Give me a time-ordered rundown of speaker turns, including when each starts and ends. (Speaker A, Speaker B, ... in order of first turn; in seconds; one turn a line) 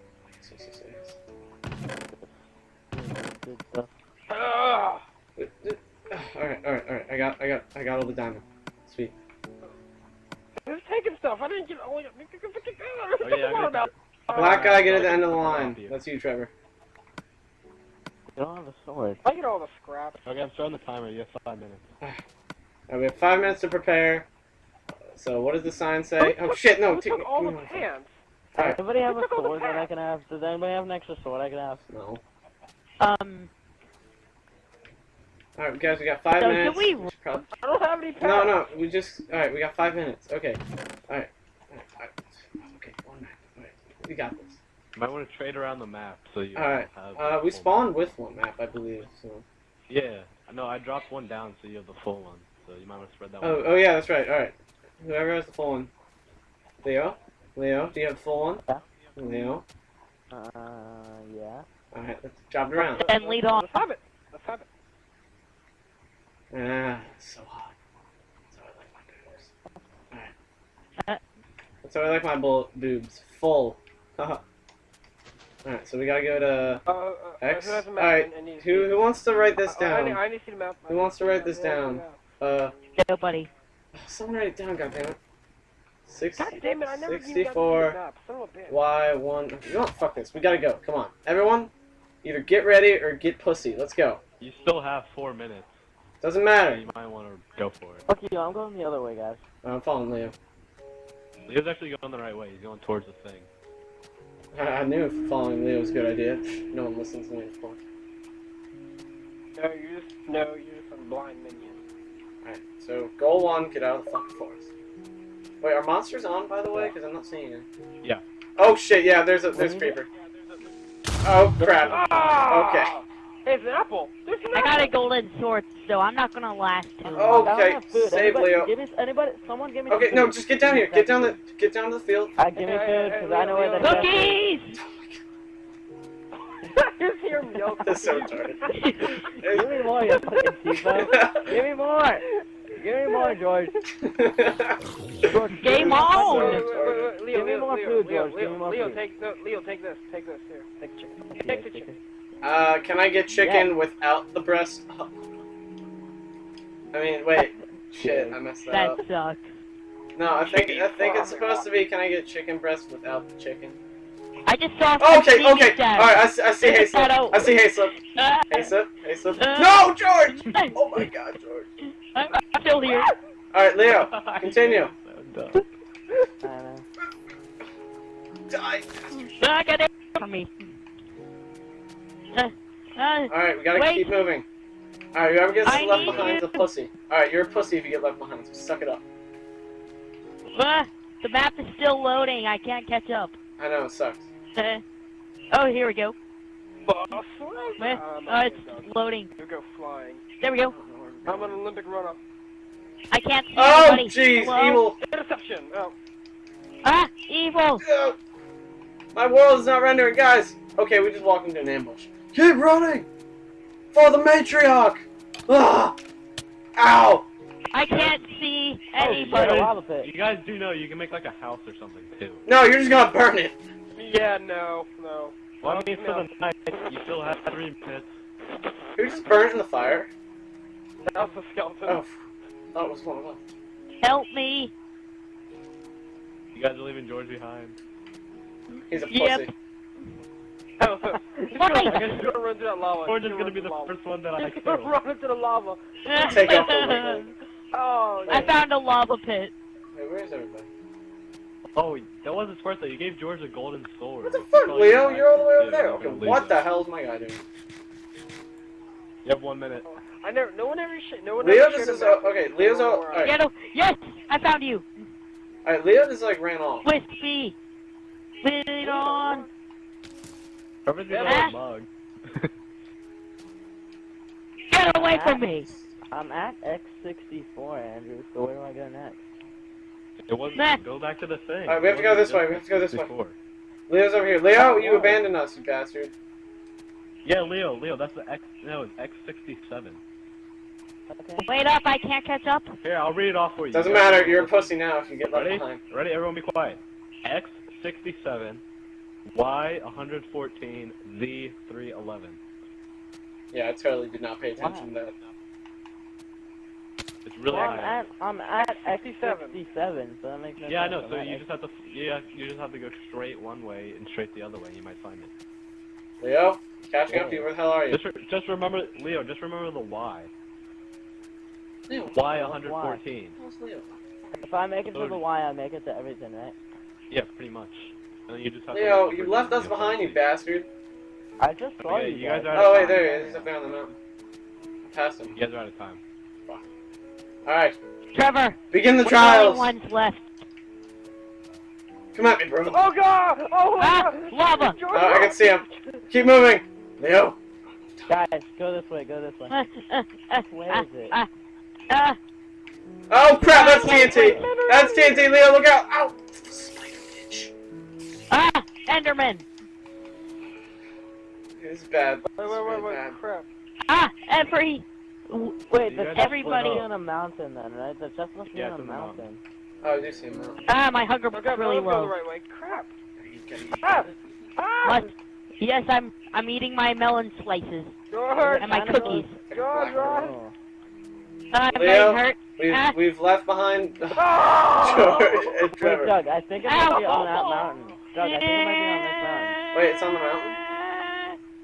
Speaker A: 0.4-1.2
Speaker B: 2.9-3.9
Speaker C: 4.3-5.0
Speaker A: 5.4-9.1
Speaker C: 10.6-14.8
Speaker D: 13.2-16.0
Speaker A: 14.3-16.5
Speaker B: 18.3-19.2
Speaker C: 19.2-20.2
Speaker D: 20.2-21.9
Speaker A: 22.9-24.3
Speaker A: 25.1-27.9
Speaker C: 26.8-28.1
Speaker A: 28.5-28.8
Speaker B: 28.6-31.8
Speaker C: 29.0-29.9
Speaker A: 31.9-32.2
Speaker E: 33.0-33.5
Speaker A: 35.6-37.5
Speaker E: 36.3-37.1
Speaker C: 37.6-38.7
Speaker A: 38.2-44.6
Speaker D: 45.0-47.8
Speaker A: 46.5-49.4
Speaker D: 49.9-53.7
Speaker A: 53.4-55.9
Speaker A: 56.8-58.6
Speaker A: 59.2-59.6
Speaker B: 60.3-61.6
Speaker A: 61.9-63.1
Speaker E: 62.8-63.7
Speaker C: 63.0-64.7
Speaker A: 66.5-67.7
Speaker A: 68.5-69.5
Speaker A: 71.8-74.4
Speaker A: 75.6-76.8
Speaker C: 76.9-79.0
Speaker A: 77.4-80.2
Speaker C: 79.6-82.2
Speaker A: 80.9-82.7
Speaker E: 83.0-83.5
Speaker A: 84.0-85.2
Speaker A: 86.1-88.0
Speaker C: 86.4-88.8
Speaker A: 88.7-91.7
Speaker A: 92.2-94.2
Speaker D: 94.4-95.7
Speaker A: 96.2-96.8
Speaker D: 96.6-98.0
Speaker B: 98.1-99.4
Speaker A: 99.6-100.3
Speaker D: 101.5-103.5
Speaker A: 104.5-107.8
Speaker C: 109.5-111.8
Speaker A: 112.4-114.7
Speaker A: 115.6-117.7
Speaker A: 118.6-120.1
Speaker B: 119.5-120.0
Speaker A: 121.2-123.0
Speaker B: 121.6-122.4
Speaker C: 121.9-125.0
Speaker E: 124.5-127.5
Speaker B: 127.0-131.4
Speaker A: 127.1-128.7
Speaker A: 129.9-132.4
Speaker B: 132.4-134.3
Speaker C: 132.6-134.4
Speaker E: 133.8-134.8
Speaker A: 134.8-135.2
Speaker C: 136.7-139.3
Speaker A: 137.8-138.6
Speaker E: 138.7-139.1
Speaker A: 139.3-139.7
Speaker B: 139.5-143.8
Speaker C: 140.1-140.5
Speaker A: 140.9-141.5
Speaker C: 143.0-143.8
Speaker A: 144.0-144.7
Speaker B: 145.3-146.6
Speaker E: 145.6-146.7
Speaker A: 145.7-147.1
Speaker C: 146.2-152.0
Speaker B: 147.3-149.0
Speaker B: 151.3-152.0
Speaker A: 152.4-155.2
Speaker B: 153.3-153.7
Speaker A: 156.9-159.0
Speaker B: 158.0-158.4
Speaker E: 158.7-159.5
Speaker A: 160.2-163.8
Speaker C: 160.5-161.7
Speaker E: 164.4-168.7
Speaker A: 165.0-168.0
Speaker A: 168.5-171.7
Speaker E: 169.4-171.1
Speaker E: 171.8-173.1
Speaker C: 172.8-173.1
Speaker A: 173.5-174.9
Speaker D: 173.9-175.7
Speaker B: 176.4-176.8
Speaker A: 178.5-179.2
Speaker E: 179.3-180.5
Speaker E: 182.3-184.1
Speaker A: 183.3-184.4
Speaker A: 185.1-189.0
Speaker E: 185.7-186.7
Speaker E: 190.5-193.4
Speaker A: 193.6-194.3
Speaker E: 194.6-194.8
Speaker E: 195.5-196.2
Speaker C: 196.8-200.3
Speaker E: 197.8-199.3
Speaker E: 200.4-200.8
Speaker A: 200.7-201.7
Speaker C: 201.3-202.2
Speaker E: 203.1-204.8
Speaker A: 203.6-205.0
Speaker C: 205.0-205.9
Speaker E: 206.8-207.8
Speaker A: 207.8-208.2
Speaker A: 209.1-213.1
Speaker A: 213.9-216.0
Speaker A: 216.8-217.3
Speaker E: 217.7-219.6
Speaker D: 217.9-218.2
Speaker B: 219.0-220.1
Speaker D: 219.0-222.4
Speaker A: 222.5-223.6
Speaker C: 224.0-226.3
Speaker D: 225.6-228.1
Speaker A: 229.0-230.1
Speaker C: 231.1-232.0
Speaker A: 231.9-232.2
Speaker A: 232.7-233.4
Speaker E: 234.0-234.7
Speaker D: 236.6-237.8
Speaker A: 238.9-239.5
Speaker E: 239.1-239.5
Speaker C: 240.8-246.5
Speaker E: 241.6-242.0
Speaker D: 241.8-242.4
Speaker D: 243.0-244.9
Speaker E: 246.1-247.3
Speaker A: 246.2-247.3
Speaker C: 247.7-248.5
Speaker A: 248.3-248.6
Speaker E: 248.3-249.5
Speaker A: 249.9-250.7
Speaker D: 251.8-256.6
Speaker A: 254.2-257.4
Speaker D: 259.2-259.9
Speaker C: 259.8-263.3
Speaker A: 261.4-263.3
Speaker E: 263.2-264.9
Speaker A: 265.6-266.9
Speaker E: 266.8-267.6
Speaker E: 268.4-269.4
Speaker C: 268.8-269.5
Speaker D: 270.9-272.5
Speaker C: 271.1-271.5
Speaker E: 271.2-271.5
Speaker E: 274.7-275.7
Speaker B: 275.0-275.4
Speaker A: 275.6-275.9
Speaker B: 276.1-279.2
Speaker D: 280.3-283.4
Speaker E: 280.5-280.8
Speaker A: 281.6-283.1
Speaker A: 283.9-286.1
Speaker B: 284.6-285.1
Speaker D: 287.2-290.0
Speaker B: 291.1-291.5
Speaker E: 291.4-292.7
Speaker D: 292.8-294.7
Speaker A: 293.7-295.8
Speaker D: 295.3-298.6
Speaker D: 299.3-302.4
Speaker A: 303.5-305.2
Speaker B: 304.6-304.9
Speaker D: 307.2-308.0
Speaker C: 307.5-307.9
Speaker B: 307.5-311.5
Speaker C: 308.6-309.6
Speaker D: 310.6-315.3
Speaker A: 316.2-318.0
Speaker B: 317.1-317.4
Speaker D: 317.9-320.3
Speaker A: 321.9-322.3
Speaker D: 322.1-323.4
Speaker B: 322.3-323.0
Speaker A: 323.4-324.4
Speaker B: 324.4-326.6
Speaker D: 324.9-325.2
Speaker D: 327.1-330.2
Speaker A: 328.7-330.7
Speaker B: 331.4-333.5
Speaker D: 331.8-333.1
Speaker A: 332.5-333.9
Speaker A: 334.8-335.3
Speaker D: 335.3-336.0
Speaker A: 337.4-337.8
Speaker E: 338.1-340.2
Speaker A: 338.7-339.7
Speaker A: 342.1-342.8
Speaker C: 342.7-345.8
Speaker E: 343.8-344.8
Speaker A: 344.9-348.1
Speaker B: 348.1-349.6
Speaker E: 349.5-351.3
Speaker B: 350.5-351.1
Speaker E: 351.9-352.2
Speaker A: 353.1-357.5
Speaker E: 353.5-354.4
Speaker C: 353.5-355.4
Speaker B: 354.1-354.4
Speaker E: 358.3-359.4
Speaker A: 361.6-363.2
Speaker C: 362.4-363.5
Speaker E: 363.9-365.6
Speaker B: 365.7-369.4
Speaker D: 365.8-366.9
Speaker E: 366.1-366.9
Speaker D: 368.5-369.2
Speaker A: 369.8-370.6
Speaker E: 370.7-372.1
Speaker C: 371.3-372.9
Speaker A: 373.2-374.2
Speaker C: 373.8-375.1
Speaker E: 374.8-377.9
Speaker C: 378.1-378.8
Speaker B: 378.4-379.3
Speaker E: 378.6-379.4
Speaker A: 379.5-380.3
Speaker C: 379.5-380.3
Speaker B: 380.0-380.5
Speaker E: 381.5-383.0
Speaker A: 381.7-386.2
Speaker C: 384.2-385.6
Speaker B: 385.8-389.6
Speaker E: 386.6-389.6
Speaker A: 389.7-390.6
Speaker E: 390.5-391.4